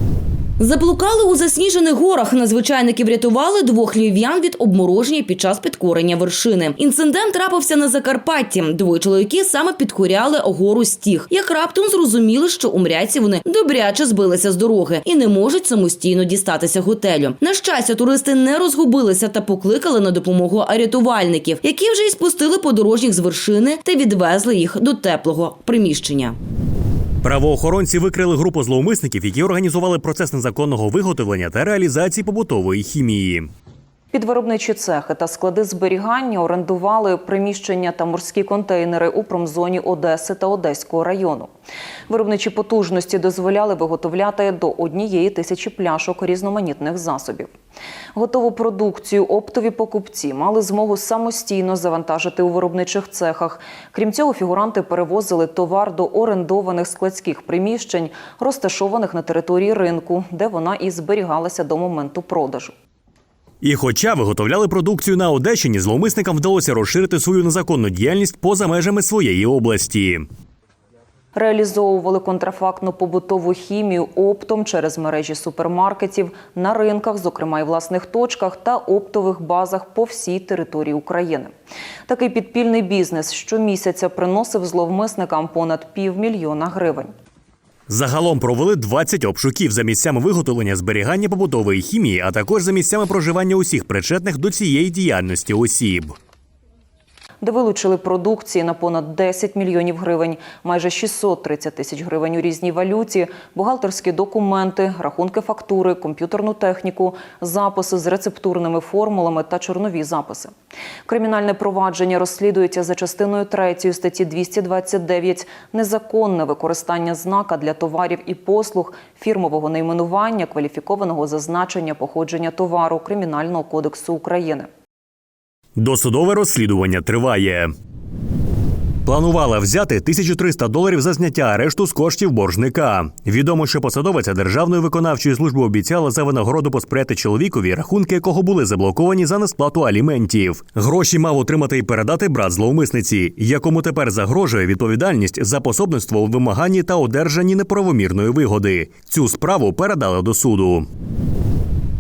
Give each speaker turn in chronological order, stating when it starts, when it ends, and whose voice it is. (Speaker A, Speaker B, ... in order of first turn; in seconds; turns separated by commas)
Speaker A: 0.6-26.4, Speaker B: 27.2-33.5, Speaker C: 34.1-41.5, Speaker C: 42.1-47.5, Speaker C: 48.1-62.8, Speaker B: 63.6-70.3, Speaker C: 71.3-81.5, Speaker C: 82.1-87.1, Speaker B: 87.9-96.2, Speaker C: 97.4-110.5, Speaker C: 111.1-124.7, Speaker B: 125.8-127.7, Speaker B: 129.1-150.9